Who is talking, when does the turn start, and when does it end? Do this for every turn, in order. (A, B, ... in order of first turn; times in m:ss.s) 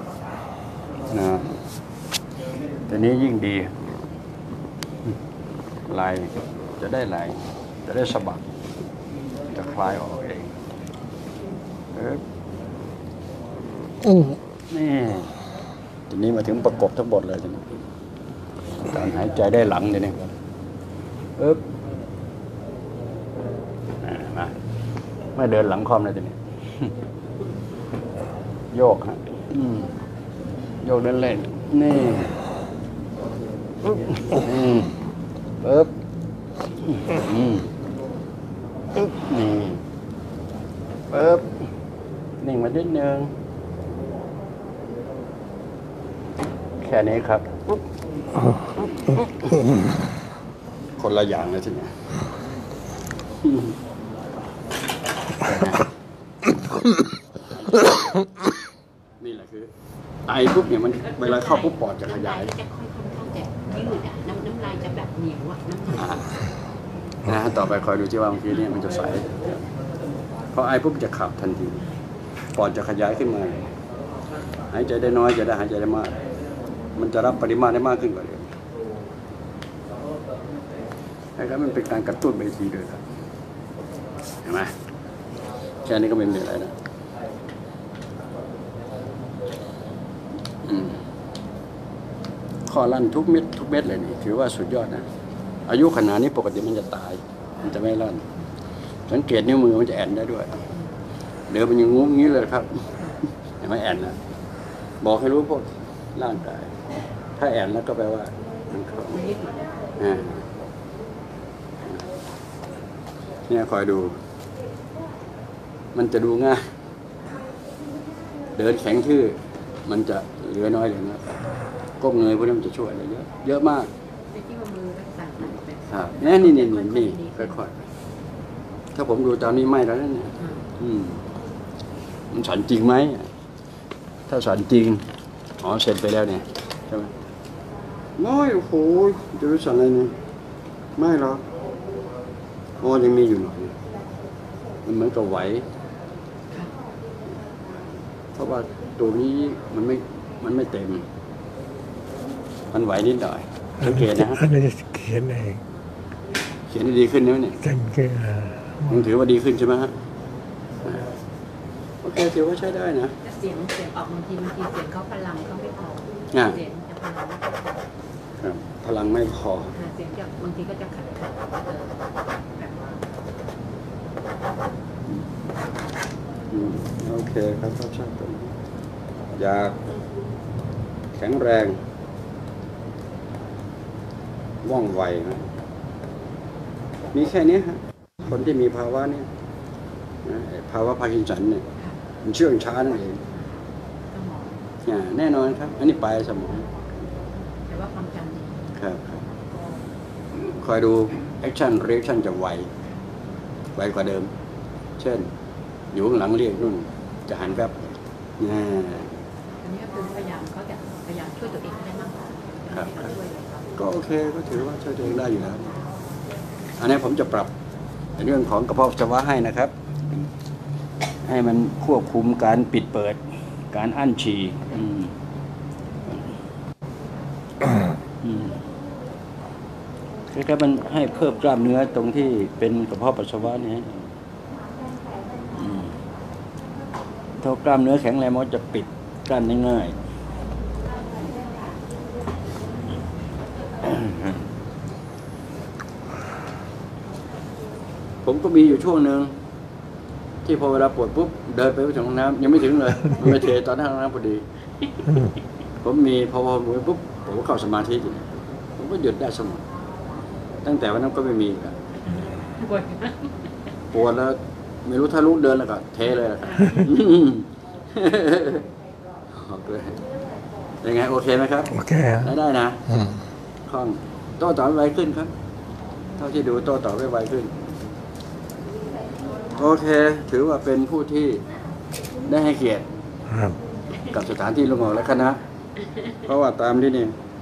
0:01.1-0:01.6 A
0:02.9-0:03.8 A
0:05.9-0:08.5 A
0:09.5-0:10.5 A
0:11.9-0:12.2 A
0:14.7-0:15.4 A
0:16.1-0:17.6 A
0:18.9-0:20.4 A
0:21.4-0:21.6 A
0:24.0-0:24.6 A
0:25.4-0:26.9 A
0:28.7-0:29.9 A
0:30.8-0:32.4 A
0:33.9-0:35.0 A
0:35.6-0:35.9 A
0:36.8-0:37.7 A
0:39.0-0:39.8 A
0:41.1-0:41.6 A
0:42.4-0:43.3 A
0:46.8-0:47.8 A
0:48.8-0:49.3 A
0:51.0-0:52.0 A
0:53.4-0:53.7 A
0:55.4-0:55.9 A
0:57.4-0:58.3 A
0:59.2-0:59.7 A
1:00.3-1:02.5 A
1:01.0-1:06.3 B
1:05.9-1:06.3 A
1:07.2-1:09.6 A
1:10.5-1:11.8 A
1:12.6-1:13.7 A
1:14.7-1:16.2 A
1:17.0-1:18.5 A
1:21.4-1:23.0 A
1:24.4-1:24.7 A
1:25.8-1:26.7 A
1:30.6-1:31.0 A
1:32.7-1:35.1 A
1:35.7-1:38.3 A
1:39.1-1:40.6 A
1:41.5-1:43.0 A
1:43.6-1:44.2 A
1:45.0-1:46.8 A
1:47.4-1:49.2 A
1:49.1-1:49.6 B
1:50.0-1:50.4 A
1:53.5-1:54.2 A
1:55.9-1:56.7 A
1:58.6-2:01.4 A
2:02.0-2:03.9 A
2:04.3-2:07.6 B
2:05.9-2:07.8 A
2:09.0-2:11.2 A
2:10.4-2:10.6 B
2:12.3-2:13.3 A
2:14.3-2:15.1 A
2:15.6-2:17.1 A
2:18.2-2:20.2 A
2:21.0-2:21.4 A
2:22.8-2:23.8 A
2:24.8-2:25.7 A
2:27.7-2:31.0 A
2:32.7-2:34.4 A
2:33.8-2:35.6 C
2:36.7-2:37.6 A
2:37.6-2:39.1 C
2:38.9-2:40.0 A
2:40.8-2:41.1 A
2:42.0-2:43.1 A
2:43.2-2:47.9 B
2:46.3-2:46.6 A
2:48.4-2:49.7 A
2:49.7-2:53.0 B
2:56.5-2:58.5 A
2:59.4-2:59.8 A
3:01.1-3:01.8 A
3:04.6-3:05.5 A
3:07.1-3:09.3 A
3:10.2-3:11.6 A
3:12.2-3:13.2 A
3:13.3-3:14.6 B
3:14.8-3:16.7 A
3:17.7-3:18.7 B
3:18.8-3:19.2 A
3:20.3-3:22.7 A
3:23.8-3:24.3 A
3:25.0-3:25.3 A
3:25.9-3:29.1 A
3:29.6-3:33.7 B
3:32.7-3:33.1 A
3:33.8-3:35.8 A
3:36.8-3:37.5 A
3:38.2-3:39.7 A
3:41.2-3:43.2 A
3:43.7-3:45.1 A
3:48.2-3:48.6 A
3:50.3-3:54.1 A
3:55.6-3:55.9 A
3:57.4-4:00.0 A
4:03.8-4:04.5 A
4:08.2-4:09.4 A
4:10.4-4:14.4 A
4:15.8-4:19.6 A
4:20.6-4:21.8 A
4:22.1-4:23.4 B
4:23.9-4:28.6 A
4:26.4-4:27.0 B
4:29.3-4:30.0 A
4:30.8-4:32.8 A
4:31.7-4:32.3 C
4:32.9-4:33.2 C
4:33.7-4:35.3 A
4:36.2-4:37.7 A
4:39.5-4:41.4 A
4:42.3-4:42.9 A
4:43.3-4:43.6 C
4:44.1-4:45.4 A
4:46.2-4:47.2 A